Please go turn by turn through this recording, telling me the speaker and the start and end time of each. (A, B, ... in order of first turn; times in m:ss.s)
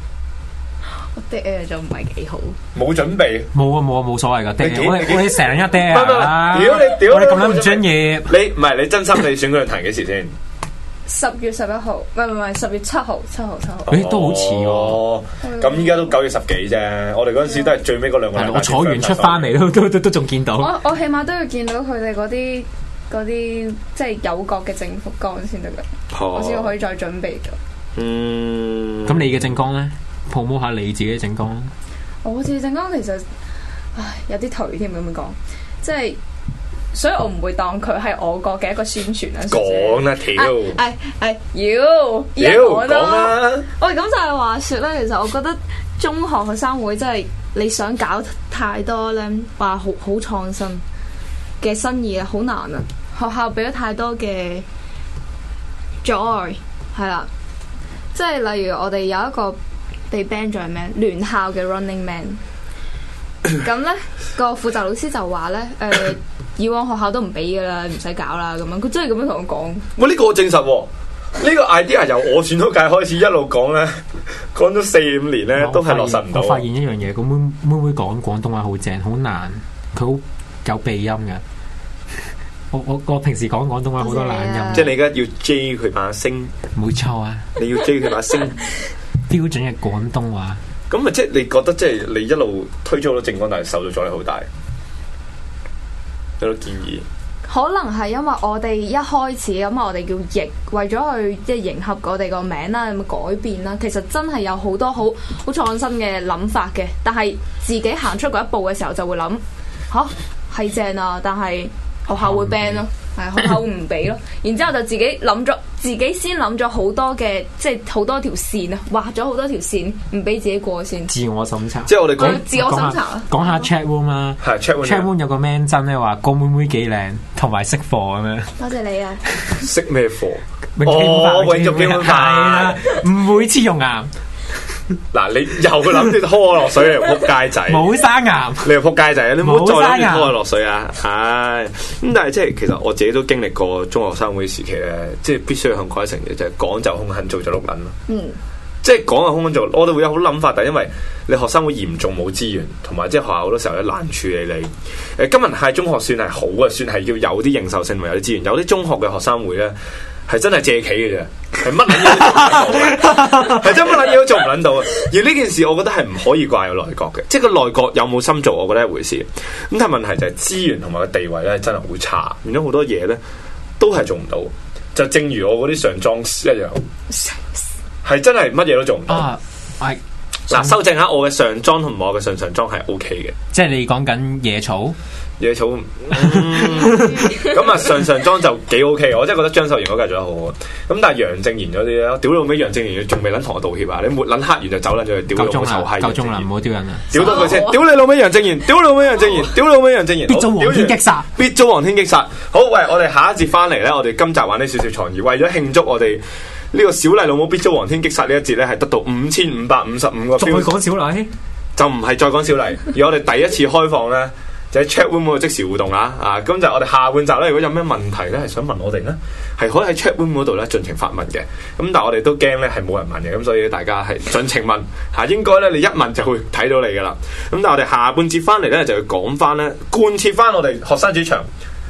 0:01.0-0:02.6 A
0:02.7-0:03.5 B
0:03.5-0:08.4 C
0:04.6-0:10.4 B
0:11.1-0:14.0 A
0:13.9-0:19.6 B
0:13.9-0:15.0 C
0:15.4-0:16.2 A
0:18.4-0:20.7 C
0:20.6-0:27.6 A
0:26.1-0:26.7 B
0:28.0-0:29.4 B
0:29.1-0:31.7 C
0:32.2-0:33.2 A
0:34.0-0:36.2 A
0:36.9-0:50.8 A
0:39.5-0:40.8 B
0:42.4-0:43.7 B
0:51.6-0:54.7 A
0:56.0-0:57.3 A
0:58.1-0:59.6 A
1:00.1-1:02.4 A
1:03.6-1:09.8 A
1:10.0-1:16.6 B
1:15.6-1:21.4 C
1:22.7-1:24.9 C
1:24.0-1:24.9 A
1:24.7-1:26.5 B
1:26.8-1:27.5 C
1:27.6-1:28.6 B
1:29.3-1:30.6 C
1:30.9-1:34.5 B
1:36.4-1:37.1 B
1:37.5-2:01.1 A
1:52.2-1:52.8 C
2:01.1-2:08.6 C
2:01.9-2:02.4 B
2:02.2-2:03.7 A
2:04.4-2:05.1 B
2:08.6-2:09.6 A
2:09.6-2:12.8 B
2:10.8-2:14.1 C
2:15.1-2:17.9 B
2:17.7-2:18.8 C
2:18.6-2:28.0 B
2:19.4-2:20.4 C
2:28.1-2:28.4 A
2:28.8-2:39.8 B
2:40.3-2:53.2 B
2:43.0-2:43.6 C
2:53.8-2:56.8 B
2:57.1-2:57.5 A
2:58.0-2:59.3 B
2:59.1-3:00.7 C
3:00.5-3:03.4 B
3:03.5-3:05.0 C
3:05.4-3:16.5 B
3:06.2-3:07.2 C
3:15.3-3:17.5 C
3:17.1-3:30.8 B
3:17.1-3:17.8 A
3:20.3-3:21.3 C
3:30.4-3:31.3 C
3:31.8-3:51.5 B